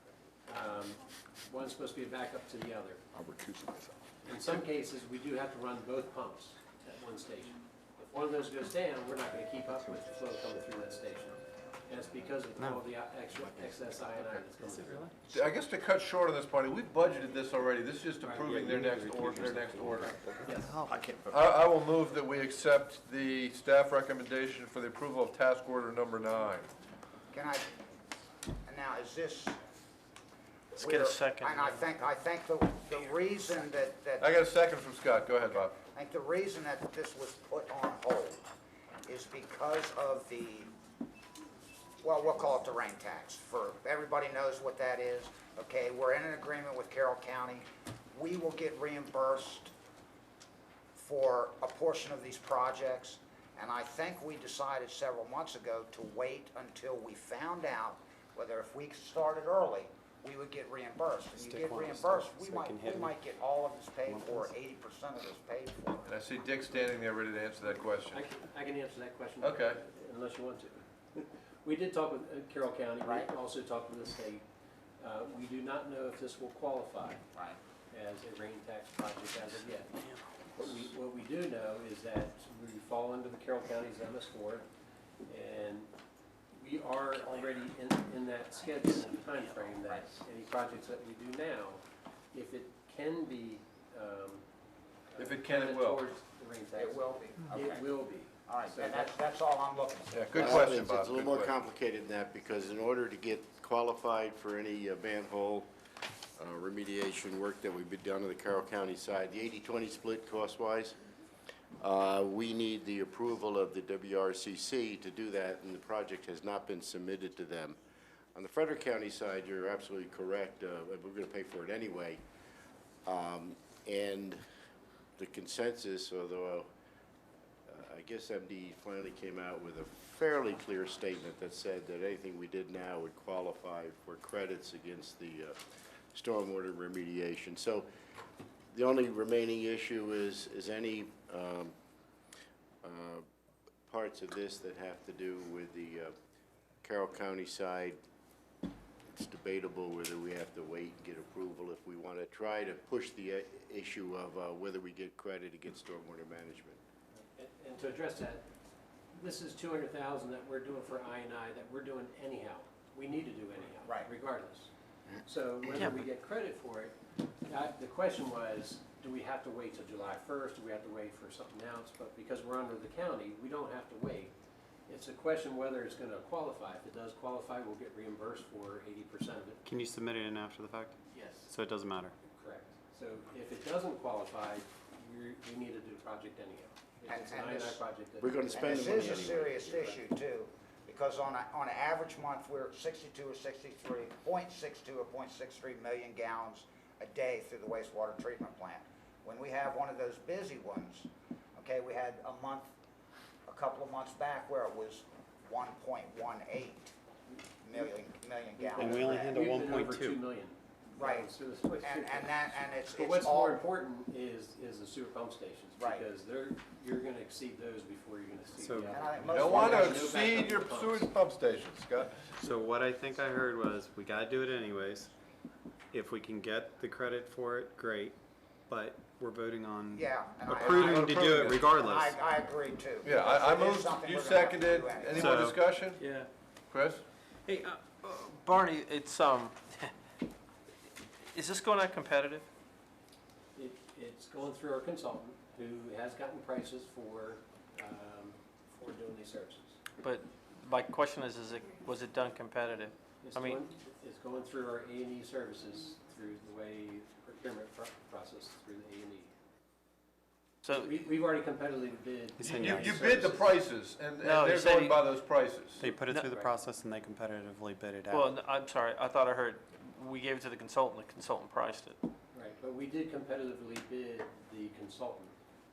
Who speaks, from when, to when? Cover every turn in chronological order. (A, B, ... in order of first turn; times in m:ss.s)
0:00.5-0:03.0 A
0:03.1-0:04.1 B
0:04.2-0:15.1 A
0:14.6-0:15.1 C
0:15.3-0:20.3 D
0:18.2-0:20.8 A
0:18.6-0:21.4 B
0:20.5-0:20.9 C
0:21.3-0:26.7 D
0:27.3-0:27.7 E
0:28.6-0:29.6 E
0:30.8-0:31.8 F
0:30.8-0:34.3 E
0:34.2-0:35.8 D
0:35.9-0:38.4 E
0:39.0-0:40.7 E
0:42.0-0:49.7 E
0:50.9-1:06.1 E
1:01.3-1:03.1 C
1:04.0-1:04.5 C
1:06.0-1:08.3 D
1:08.1-1:14.4 A
1:09.4-1:09.8 D
1:13.0-1:13.3 E
1:15.0-1:17.2 A
1:17.9-1:19.9 A
1:19.9-1:20.2 F
1:20.5-1:24.7 A
1:25.2-1:25.9 A
1:26.5-1:34.4 A
1:35.1-1:39.1 A
1:35.2-1:36.0 D
1:36.8-1:37.9 E
1:38.5-1:40.6 E
1:40.1-1:41.6 D
1:40.4-1:45.7 G
1:46.4-1:51.0 G
1:51.8-1:57.8 G
1:58.3-2:02.2 G
2:03.0-2:04.4 G
2:05.2-2:06.7 G
2:07.7-2:15.6 G
2:16.1-2:17.9 G
2:18.7-2:21.7 G
2:22.8-2:23.2 G
2:23.9-2:26.1 G
2:26.8-2:28.0 G
2:29.1-2:36.8 G
2:37.2-2:38.4 A
2:39.1-2:44.7 A
2:45.2-2:54.3 A
2:54.9-2:59.6 A
2:59.6-3:02.1 C
3:01.1-3:01.5 A
3:02.3-3:09.3 A
3:07.1-3:07.8 E
3:08.2-3:10.0 G
3:08.5-3:22.7 E
3:23.4-3:26.9 E
3:27.6-3:29.6 E
3:28.6-3:41.1 A
3:28.8-3:30.2 C
3:31.0-3:31.3 E
3:31.8-3:33.6 E
3:35.8-3:36.0 E
3:38.6-3:39.5 C
3:38.9-3:40.1 E
3:39.3-3:42.2 D
3:42.4-3:45.1 C
3:45.9-3:48.2 C
3:48.7-3:52.2 C
3:49.9-3:55.4 E
3:50.5-3:51.8 D
3:53.0-3:56.0 D
3:55.1-3:55.6 C
3:56.0-3:56.3 F
3:56.7-3:57.0 D
3:57.4-3:59.9 F
4:01.3-4:02.4 F
4:03.6-4:09.8 A
4:10.0-4:13.6 F
4:13.2-4:19.3 A
4:20.6-4:20.9 F
4:20.7-4:23.5 A
4:22.4-4:23.1 C
4:22.4-4:25.9 D
4:24.2-4:25.0 F
4:25.8-4:28.3 C
4:26.0-4:26.3 F
4:26.2-4:26.5 A
4:28.1-4:32.0 F
4:32.3-4:35.3 A